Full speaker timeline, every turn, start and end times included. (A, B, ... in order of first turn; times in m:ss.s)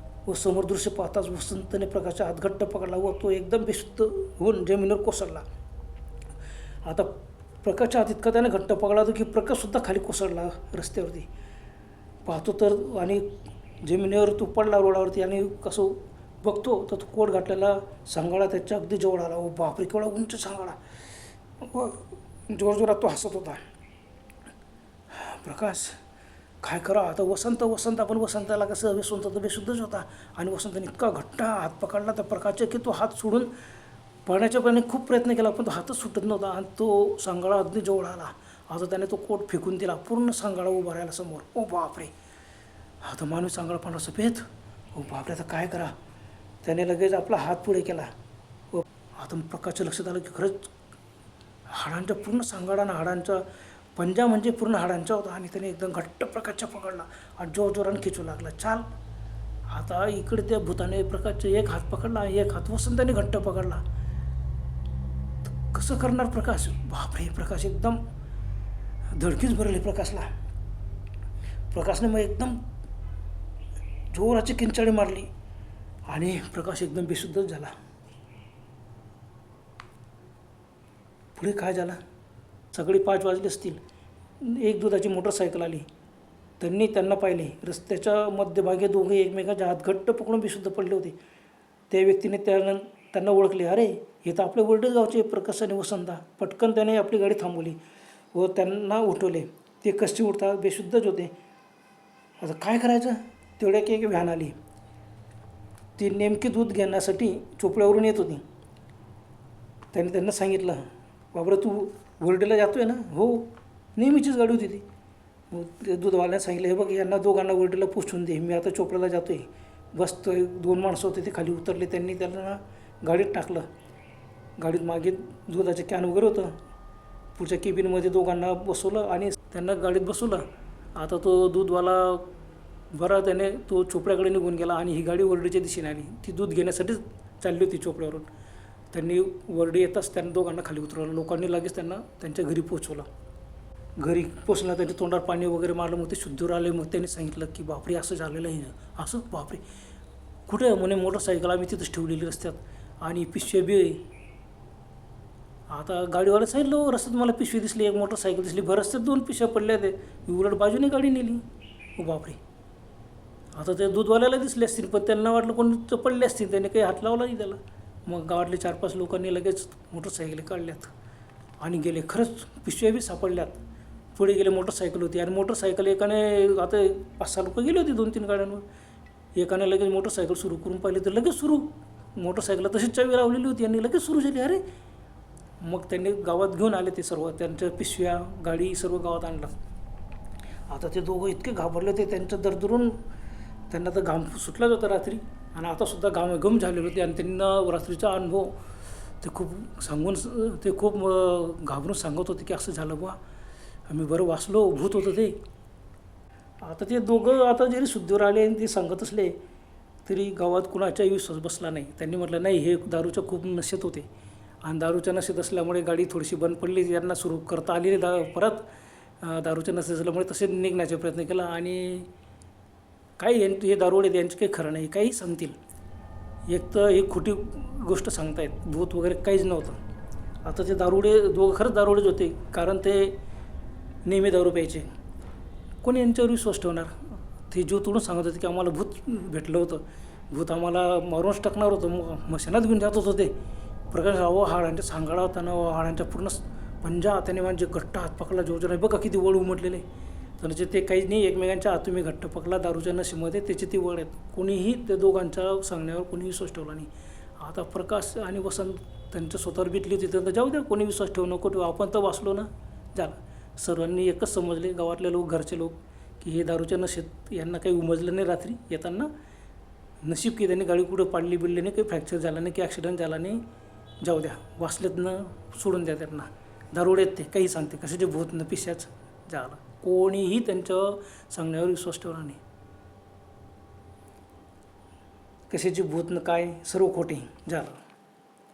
0:00.3-0:05.4 A
0:06.8-0:11.3 A
0:12.2-0:20.8 A
0:21.6-0:23.6 A
0:25.1-0:26.0 A
0:26.6-0:33.5 A
0:34.2-0:42.1 A
0:43.0-0:46.0 A
0:46.6-0:48.1 A
0:48.7-0:50.7 A
0:51.7-0:53.4 A
0:54.0-0:58.8 A
0:59.7-1:03.8 A
1:05.5-1:08.0 A
1:09.2-1:10.3 A
1:11.7-1:12.6 A
1:14.1-1:15.3 A
1:16.1-1:17.8 A
1:21.4-1:22.0 A
1:22.7-1:23.8 A
1:24.4-1:25.9 A
1:26.6-1:31.2 A
1:31.9-1:37.8 A
1:38.3-1:41.4 A
1:42.4-1:44.6 A
1:46.0-1:48.4 A
1:49.9-1:54.8 A
1:55.5-2:03.7 A
2:04.6-2:06.6 A
2:07.4-2:10.4 A
2:11.0-2:12.3 A
2:12.9-2:18.3 A
2:18.9-2:23.1 A
2:24.0-2:29.6 A
2:30.5-2:34.0 A
2:35.7-2:41.4 A
2:42.0-2:42.4 A
2:43.6-2:50.9 A
2:51.6-2:53.6 A
2:54.2-2:58.6 A
2:59.4-3:04.6 A
3:05.6-3:09.6 A
3:10.7-3:13.0 A
3:13.7-3:18.6 A
3:19.2-3:23.2 A
3:23.9-3:25.4 A
3:26.6-3:29.4 A
3:30.1-3:34.1 A
3:34.6-3:38.7 A
3:39.2-3:42.1 A
3:43.2-3:45.6 A
3:46.5-3:49.8 A
3:50.4-3:53.2 A
3:54.0-3:54.9 A
3:55.8-4:03.4 A
4:03.9-4:09.8 A
4:10.4-4:29.1 A
4:30.0-4:33.4 A
4:34.0-4:42.4 A
4:45.5-4:47.8 A